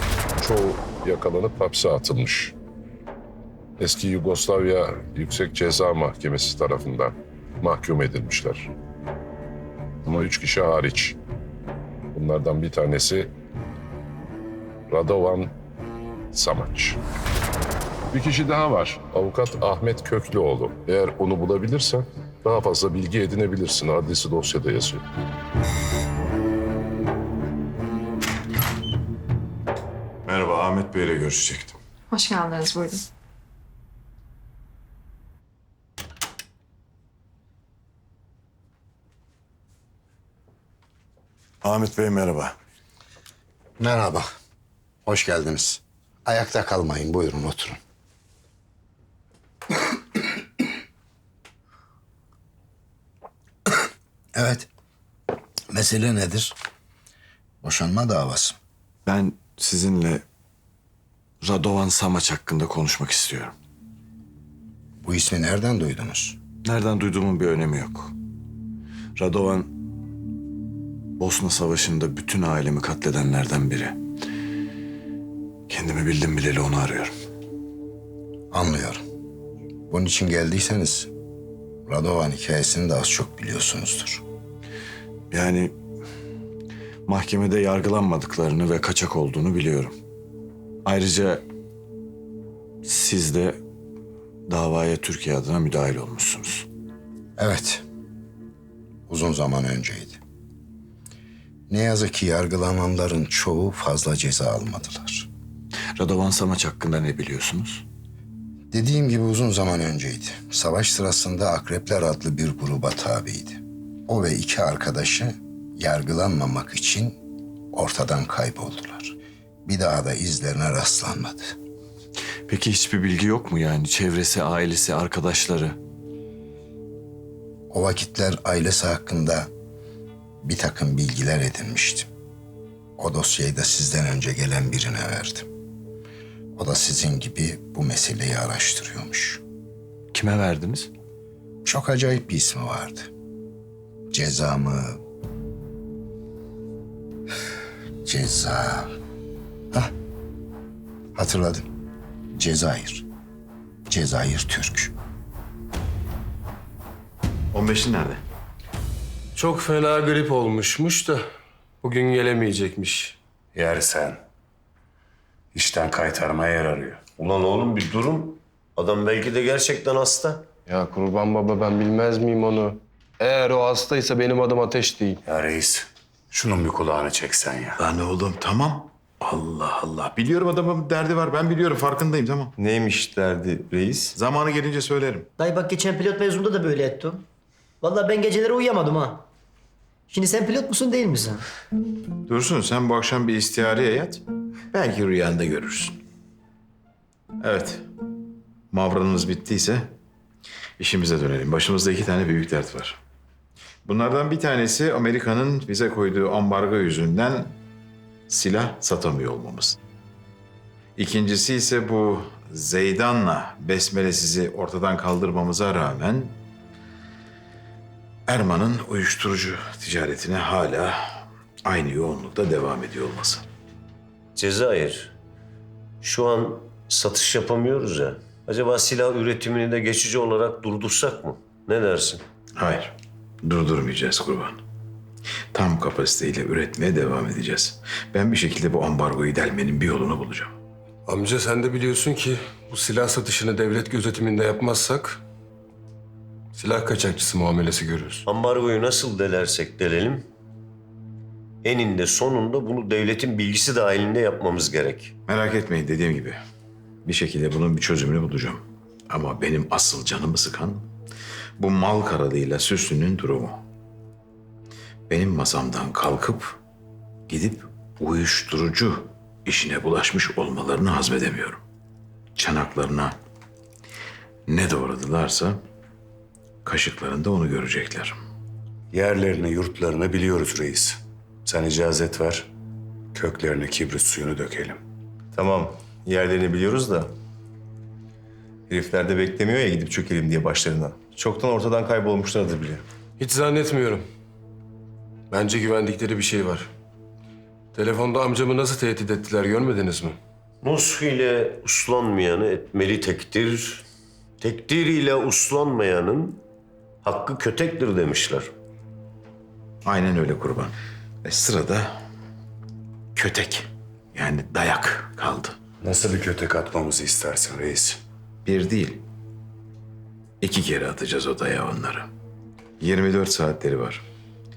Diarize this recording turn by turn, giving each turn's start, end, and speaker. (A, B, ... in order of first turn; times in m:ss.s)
0:00.4-0:02.5 A
0:03.8-0:08.7 A
0:10.0-0:11.2 A
0:12.1-0:13.3 A
0:14.9-0:15.5 A
0:16.3-0:17.0 A
0:18.1-0:25.0 A
0:30.3-0:31.5 B
0:41.6-0:42.6 C
0:43.8-0:44.3 D
0:45.0-0:47.8 D
0:54.3-0:54.7 D
0:55.7-0:56.5 D
0:57.6-0:58.6 D
0:59.0-1:00.2 C
1:01.4-1:03.5 C
1:05.0-1:06.4 D
1:06.6-1:08.1 C
1:09.2-1:09.7 C
1:11.2-1:14.0 C
1:15.7-1:17.1 C
1:18.5-1:19.0 D
1:19.9-1:21.1 D
1:21.9-1:24.2 D
1:25.3-1:25.7 C
1:27.0-1:29.9 C
1:30.8-1:31.4 C
1:32.8-1:33.6 C
1:34.5-1:36.7 C
1:37.4-1:37.8 D
1:39.1-1:40.2 D
1:41.7-1:45.3 D
1:46.0-1:47.8 C
1:48.7-1:57.2 D
1:57.7-2:01.6 D
2:02.5-2:05.8 C
2:07.7-2:09.5 D
2:10.4-2:12.1 D
2:13.0-2:15.5 D
2:16.6-2:19.4 D
2:20.1-2:20.9 C
2:21.6-2:23.1 D
2:24.1-2:25.0 D
2:28.0-2:28.9 D
2:31.1-2:31.6 D
2:32.3-2:33.0 D
2:33.9-2:34.9 D
2:37.5-2:38.2 B
2:39.3-2:41.2 E
2:41.8-2:43.2 E
2:43.5-2:44.2 F
2:45.5-2:47.0 F
2:47.2-2:50.4 G
2:50.7-2:55.2 E
2:55.2-2:57.8 F
2:57.8-3:02.5 B
3:02.6-3:04.1 H
3:04.1-3:05.3 B
3:05.4-3:07.2 I
3:07.8-3:09.2 I
3:10.1-3:11.4 I
3:12.3-3:16.0 B
3:17.4-3:17.8 B
3:18.7-3:19.9 B
3:20.8-3:23.0 B
3:23.8-3:27.6 B
3:28.3-3:29.8 B
3:31.0-3:36.4 B
3:38.3-3:43.4 B
3:44.4-3:45.1 G
3:46.0-3:52.2 G
3:52.6-3:54.6 B
3:55.5-4:00.5 B
4:01.1-4:05.2 E
4:06.5-4:08.2 E
4:08.2-4:10.2 G
4:11.6-4:15.1 G
4:15.3-4:16.4 B
4:17.0-4:20.9 B
4:21.6-4:23.6 B
4:25.1-4:26.6 B
4:27.3-4:31.6 B
4:32.4-4:33.2 B
4:34.5-4:35.6 B
4:36.6-4:38.2 B
4:38.9-4:42.5 F
4:43.1-4:44.8 F
4:45.3-4:47.1 H
4:48.7-4:52.8 H
4:53.2-4:54.0 E
4:55.3-4:56.7 E
4:57.7-5:00.2 E
5:00.6-5:03.8 G
5:04.4-5:06.4 G
5:07.0-5:08.5 G
5:09.8-5:10.7 B
5:11.2-5:12.0 B
5:13.1-5:15.6 B
5:15.8-5:18.0 F
5:18.4-5:19.0 B
5:20.4-5:22.1 B
5:22.8-5:24.0 B